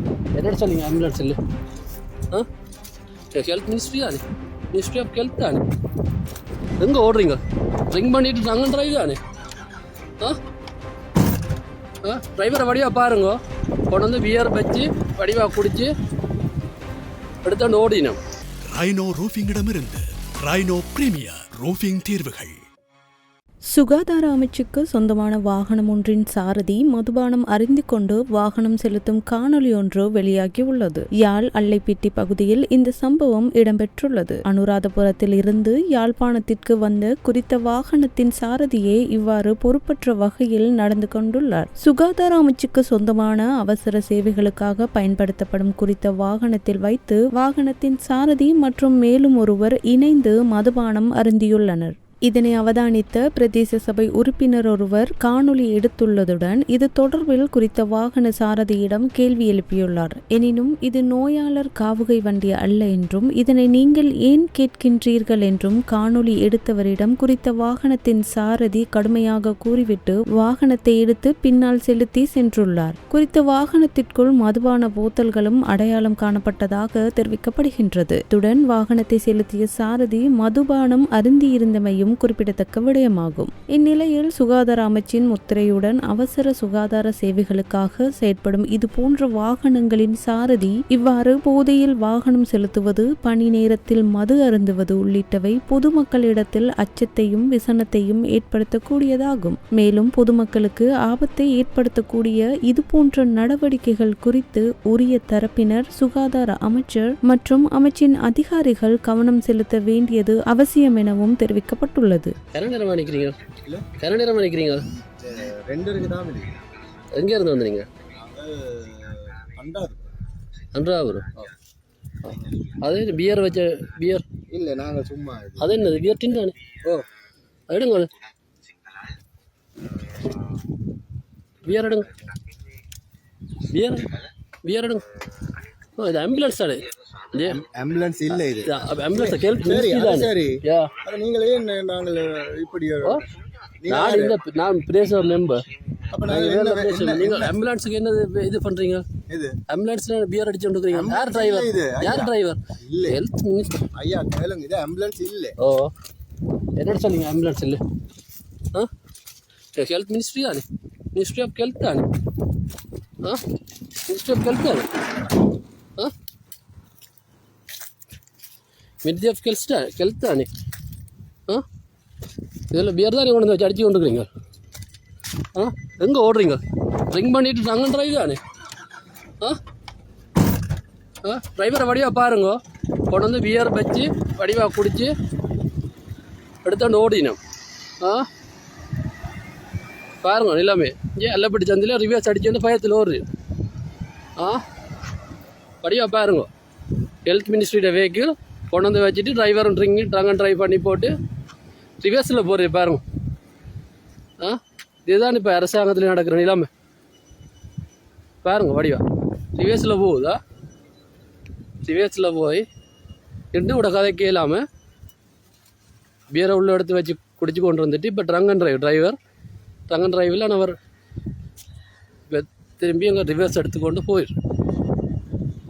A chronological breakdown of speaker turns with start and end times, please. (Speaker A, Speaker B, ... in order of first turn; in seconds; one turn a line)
Speaker A: 0.3-1.4
Speaker A: 3.3-4.2
Speaker A: 4.7-5.6
Speaker A: 6.8-9.2
Speaker A: 12.0-13.4
Speaker A: 13.9-15.9
Speaker A: 17.4-18.2
Speaker B: 18.6-22.6
Speaker C: 23.7-112.3
Speaker A: 112.5-113.4
Speaker A: 114.0-114.8
Speaker D: 115.2-116.5
Speaker A: 117.2-117.9
Speaker D: 118.2-120.0
Speaker A: 120.7-121.3
Speaker A: 122.2-124.2
Speaker D: 124.5-125.7
Speaker A: 125.6-126.6
Speaker A: 127.7-128.1
Speaker A: 131.6-132.1
Speaker A: 133.7-134.1
Speaker A: 134.7-135.0
Speaker A: 136.0-137.6
Speaker D: 137.5-143.2
Speaker A: 138.6-140.9
Speaker D: 143.8-144.4
Speaker A: 143.9-145.6
Speaker D: 146.1-147.6
Speaker A: 146.2-149.1
Speaker D: 149.3-149.5
Speaker A: 149.7-153.8
Speaker D: 150.9-152.3
Speaker D: 152.9-153.2
Speaker D: 154.0-155.6
Speaker A: 155.6-155.9
Speaker A: 156.8-157.8
Speaker A: 159.8-162.1
Speaker A: 164.1-164.9
Speaker A: 169.0-170.5
Speaker A: 172.7-174.3
Speaker A: 175.5-178.4
Speaker A: 181.2-185.1
Speaker A: 186.6-187.4
Speaker A: 188.0-188.3
Speaker A: 190.2-193.2
Speaker A: 194.4-194.6
Speaker A: 195.8-196.5
Speaker A: 197.2-201.2
Speaker A: 202.0-203.0
Speaker A: 204.4-206.7
Speaker A: 208.4-209.0
Speaker A: 209.6-210.4
Speaker A: 211.8-212.7
Speaker A: 213.5-214.7
Speaker A: 216.3-219.2
Speaker A: 219.9-220.8
Speaker A: 222.3-224.3